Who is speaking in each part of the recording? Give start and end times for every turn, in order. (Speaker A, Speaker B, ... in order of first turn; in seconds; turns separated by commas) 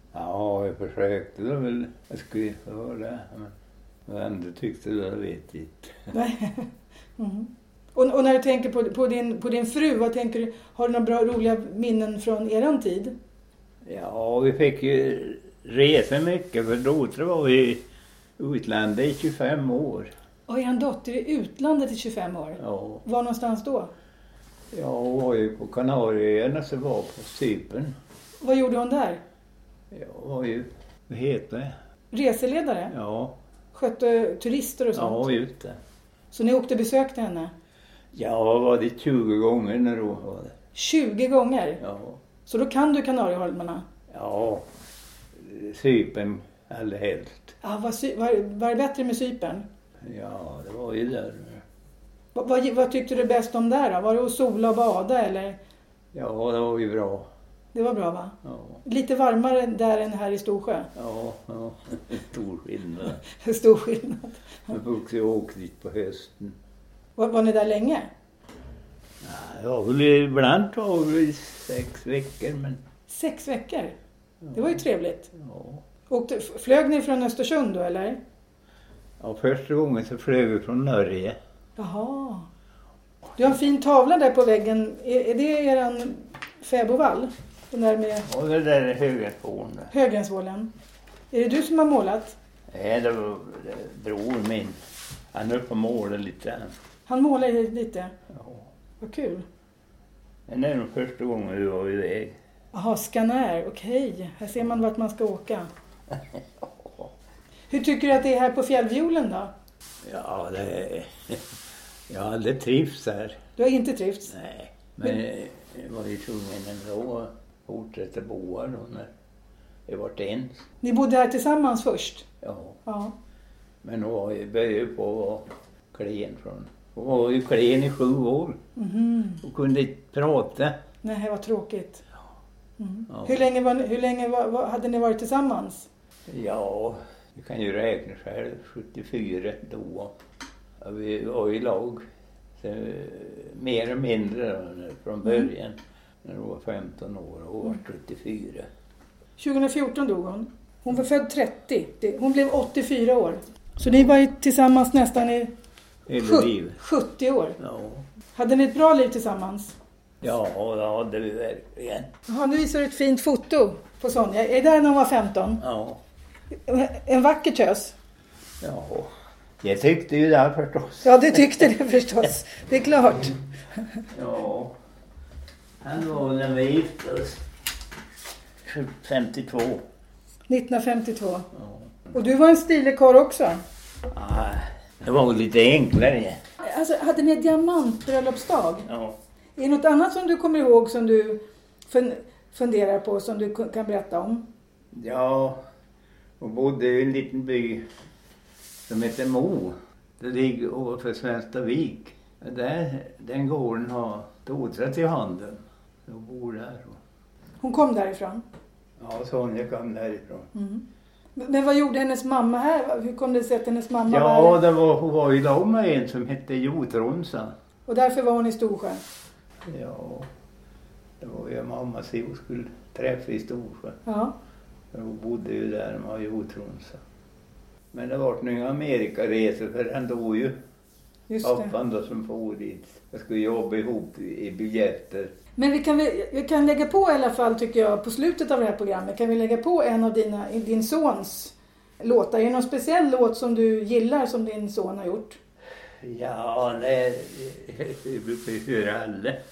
Speaker A: 0.1-3.5, Speaker A: 4.0-6.1, Speaker B: 6.1-13.1, Speaker A: 13.8-17.8, Speaker A: 18.4-20.1, Speaker B: 20.5-23.9, Speaker A: 22.6-23.0, Speaker A: 24.7-27.9, Speaker B: 28.4-29.2, Speaker A: 29.9-31.7, Speaker B: 32.1-32.9, Speaker A: 32.9-33.4, Speaker B: 33.7-35.3, Speaker A: 34.9-35.8, Speaker B: 36.3-37.5, Speaker A: 38.1-40.5, Speaker B: 40.7-41.8, Speaker A: 41.8-42.2, Speaker B: 42.5-43.8, Speaker A: 44.1-44.7, Speaker A: 45.3-47.5, Speaker B: 47.6-49.6, Speaker A: 50.0-51.6, Speaker B: 52.3-55.6, Speaker A: 56.1-57.3, Speaker B: 57.7-60.9, Speaker A: 58.4-58.8, Speaker A: 60.9-63.2, Speaker B: 63.2-64.7, Speaker A: 64.7-66.5, Speaker B: 67.2-68.1, Speaker A: 69.2-72.8, Speaker B: 73.1-74.0, Speaker A: 74.4-74.8, Speaker B: 74.5-75.3, Speaker A: 75.3-75.8, Speaker B: 76.1-78.2, Speaker A: 79.2-81.4, Speaker B: 81.8-82.5, Speaker B: 83.4-88.3, Speaker A: 88.2-89.9, Speaker B: 89.9-90.7, Speaker B: 91.3-92.3, Speaker A: 92.7-94.8, Speaker A: 95.3-96.7, Speaker B: 97.1-98.1, Speaker A: 98.3-98.7, Speaker B: 99.0-99.4, Speaker A: 100.5-102.3, Speaker B: 102.7-105.7, Speaker A: 106.1-107.1, Speaker B: 107.7-109.5, Speaker A: 110.0-111.5, Speaker A: 112.1-113.4, Speaker B: 113.6-114.3, Speaker A: 114.3-119.1, Speaker A: 119.9-120.6, Speaker B: 120.8-122.2, Speaker A: 122.4-122.8, Speaker B: 122.8-123.1, Speaker A: 123.8-128.6, Speaker B: 128.8-129.4, Speaker A: 129.4-130.8, Speaker B: 131.0-132.0, Speaker B: 132.8-135.9, Speaker A: 133.1-133.4, Speaker A: 136.3-140.1, Speaker A: 140.8-142.0, Speaker A: 142.6-148.7, Speaker B: 149.4-155.5, Speaker A: 156.1-156.8, Speaker B: 156.2-157.6, Speaker A: 157.6-158.1, Speaker B: 158.3-159.8, Speaker A: 160.2-162.1, Speaker B: 162.3-165.6, Speaker A: 165.6-166.0, Speaker B: 166.7-167.9, Speaker A: 168.6-171.6, Speaker B: 171.0-173.4, Speaker A: 174.1-174.7, Speaker A: 175.8-177.4, Speaker A: 178.6-179.8, Speaker B: 180.5-181.5, Speaker A: 181.5-181.9, Speaker B: 182.1-183.6, Speaker A: 184.1-186.4, Speaker B: 186.6-188.9, Speaker A: 188.9-189.2, Speaker B: 189.6-194.4, Speaker A: 194.9-195.6, Speaker A: 196.4-197.8, Speaker A: 198.9-207.0, Speaker B: 207.6-208.4, Speaker A: 209.0-210.5, Speaker B: 210.5-210.8, Speaker B: 211.3-214.6, Speaker A: 214.1-217.5, Speaker B: 217.9-219.0, Speaker A: 219.7-220.3, Speaker A: 221.2-224.0, Speaker B: 224.1-224.3, Speaker A: 224.9-227.0, Speaker A: 227.9-230.6, Speaker B: 231.3-231.7, Speaker A: 231.4-235.3, Speaker B: 235.6-245.4, Speaker A: 246.0-249.4